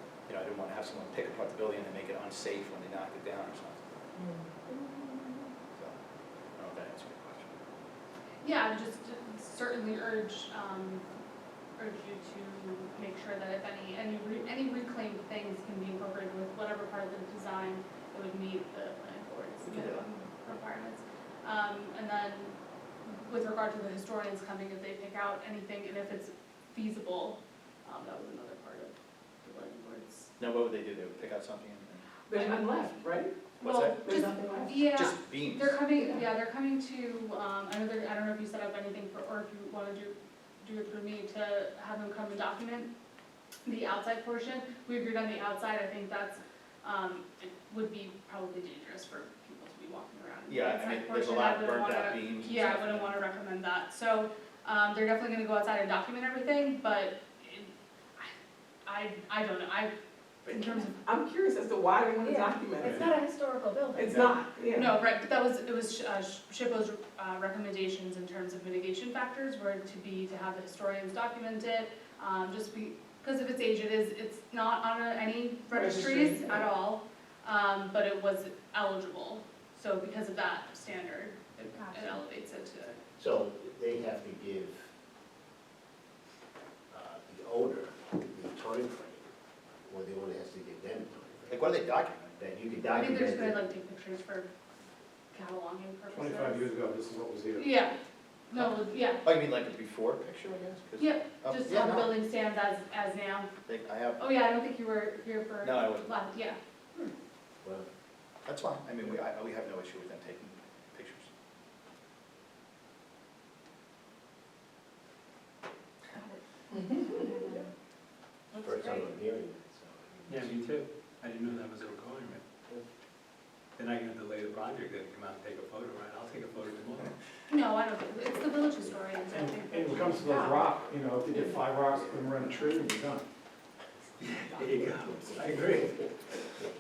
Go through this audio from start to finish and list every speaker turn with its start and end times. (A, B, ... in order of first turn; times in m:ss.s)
0:00.3-0:03.8 A
0:04.2-0:04.5 B
0:06.6-0:07.5 A
0:08.4-0:11.0 C
0:11.8-0:22.5 C
0:19.6-0:20.0 A
0:23.1-0:30.3 C
0:30.4-0:32.0 A
0:32.3-0:33.3 B
0:32.3-0:33.0 C
0:33.6-0:34.0 A
0:33.6-0:42.9 C
0:34.0-0:34.8 B
0:34.8-0:35.8 A
0:43.6-0:58.3 C
0:50.5-0:53.2 A
0:58.8-0:59.9 C
1:00.4-1:01.0 C
1:01.0-1:03.1 B
1:02.2-1:04.2 D
1:04.0-1:05.0 B
1:04.7-1:23.0 C
1:15.7-1:16.6 B
1:21.7-1:22.2 D
1:23.2-1:24.9 E
1:26.9-1:29.3 E
1:29.9-1:31.6 E
1:31.5-1:32.4 A
1:32.4-1:33.6 E
1:32.9-1:34.5 C
1:35.3-1:36.7 C
1:36.1-1:37.7 F
1:37.6-1:37.9 C
1:38.5-1:39.2 C
1:38.6-1:42.1 A
1:41.0-1:43.5 C
1:43.7-1:44.2 A
1:44.2-1:46.6 C
1:45.6-1:46.1 A
1:48.4-1:51.3 A
1:56.1-1:57.7 D
1:56.7-1:57.1 B
1:58.5-1:59.1 D
1:58.5-2:00.6 E
2:00.3-2:02.4 G
2:03.8-2:07.1 G
2:07.5-2:10.7 C
2:09.3-2:13.2 F
2:14.2-2:16.0 G